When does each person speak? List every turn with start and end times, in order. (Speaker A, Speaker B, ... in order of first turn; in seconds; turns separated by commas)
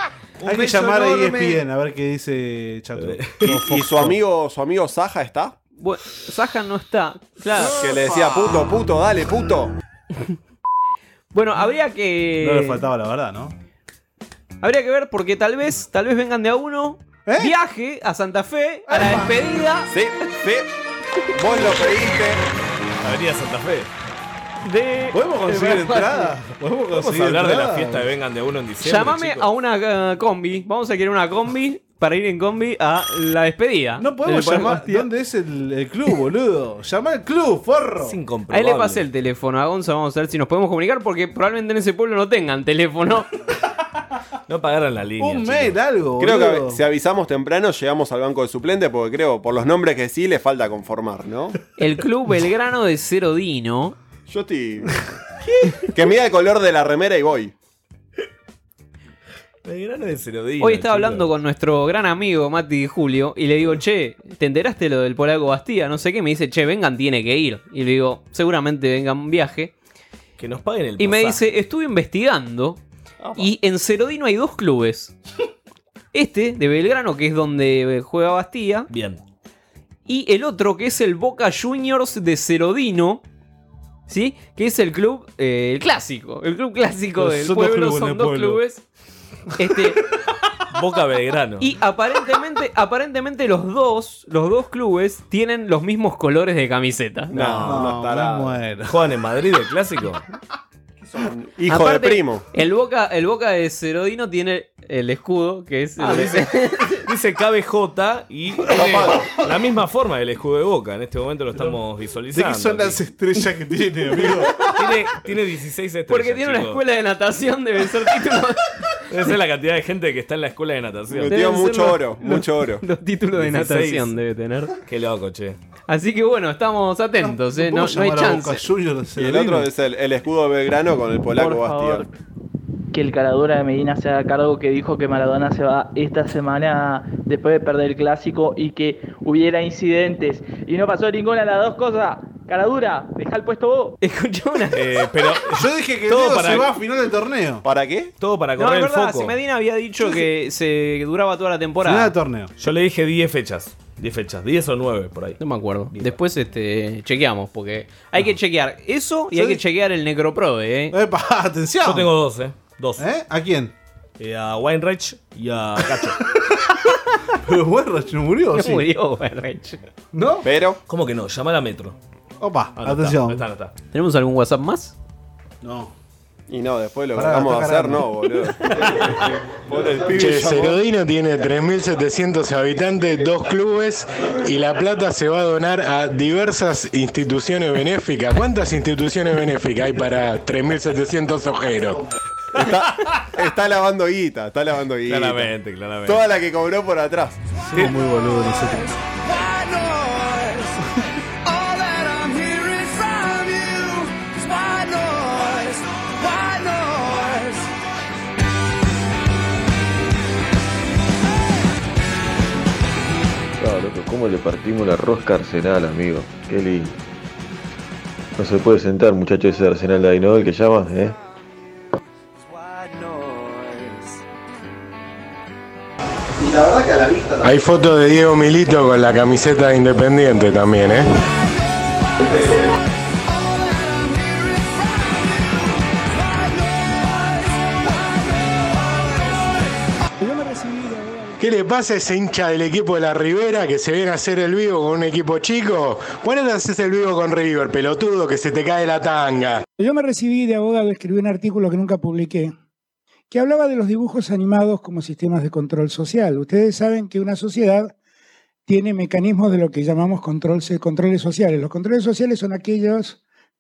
Speaker A: 0.4-1.6, Speaker B: 0.5-4.2, Speaker A: 3.0-3.6, Speaker C: 3.6-5.5, Speaker D: 5.8-7.8, Speaker C: 7.8-9.7, Speaker D: 11.3-12.8, Speaker B: 12.4-13.6, Speaker D: 14.6-19.9, Speaker B: 17.3-17.5, Speaker B: 18.9-19.3, Speaker C: 19.9-20.7, Speaker C: 21.3-22.4, Speaker A: 23.0-23.9, Speaker D: 24.6-26.3, Speaker B: 25.1-28.1, Speaker A: 26.9-29.5, Speaker D: 28.8-35.1, Speaker B: 34.0-38.2, Speaker A: 38.0-39.0, Speaker D: 38.5-43.3, Speaker A: 44.5-45.8, Speaker B: 45.2-46.8, Speaker C: 46.2-51.6, Speaker D: 51.8-54.0, Speaker C: 54.3-55.0, Speaker C: 55.9-57.5, Speaker A: 59.6-61.3, Speaker D: 60.6-69.7, Speaker A: 70.4-71.4, Speaker D: 71.0-72.8, Speaker D: 73.4-75.1, Speaker D: 76.1-78.9, Speaker A: 78.9-79.2, Speaker D: 80.1-83.2, Speaker D: 84.1-88.8, Speaker B: 87.2-88.6, Speaker D: 89.6-90.0, Speaker A: 90.7-91.7, Speaker D: 91.6-97.3, Speaker C: 97.3-98.6, Speaker A: 97.3-98.0, Speaker B: 97.6-99.0, Speaker A: 98.9-100.2, Speaker C: 101.1-102.4, Speaker D: 101.7-107.0, Speaker A: 106.0-106.4, Speaker A: 107.0-113.0, Speaker C: 108.7-109.3, Speaker B: 111.5-111.8, Speaker B: 112.3-114.7, Speaker A: 114.6-116.8, Speaker D: 116.1-118.8, Speaker A: 119.1-121.4, Speaker C: 121.1-122.8, Speaker D: 121.3-124.7, Speaker A: 123.4-124.2, Speaker A: 124.9-125.6, Speaker D: 125.9-128.6, Speaker B: 127.2-129.7, Speaker C: 129.2-132.1, Speaker E: 131.3-132.1, Speaker E: 132.9-144.0, Speaker D: 144.0-144.8, Speaker A: 144.7-146.7, Speaker B: 145.5-147.6, Speaker C: 147.6-148.1, Speaker A: 148.2-149.4, Speaker D: 148.6-152.1, Speaker B: 151.8-152.5, Speaker A: 152.6-155.4, Speaker D: 155.4-161.0, Speaker B: 159.3-159.6, Speaker B: 160.9-162.1, Speaker A: 161.8-163.1, Speaker B: 163.0-163.7, Speaker A: 164.2-166.2, Speaker B: 167.4-168.9, Speaker D: 168.6-169.8, Speaker B: 170.1-170.5, Speaker C: 170.4-170.8, Speaker A: 170.9-172.0, Speaker B: 172.4-173.4, Speaker A: 172.8-173.7, Speaker D: 173.9-174.9, Speaker B: 175.6-175.9, Speaker C: 176.5-180.8, Speaker B: 177.1-178.1, Speaker F: 180.1-192.0, Speaker C: 192.6-195.5, Speaker A: 195.1-196.3, Speaker C: 196.1-197.4, Speaker B: 197.7-199.0, Speaker G: 213.6-217.0, Speaker G: 218.4-221.2, Speaker C: 226.4-227.5, Speaker F: 227.4-231.1, Speaker H: 240.2-241.4, Speaker F: 241.4-249.6, Speaker H: 249.8-252.5, Speaker H: 253.3-257.9, Speaker H: 258.7-263.2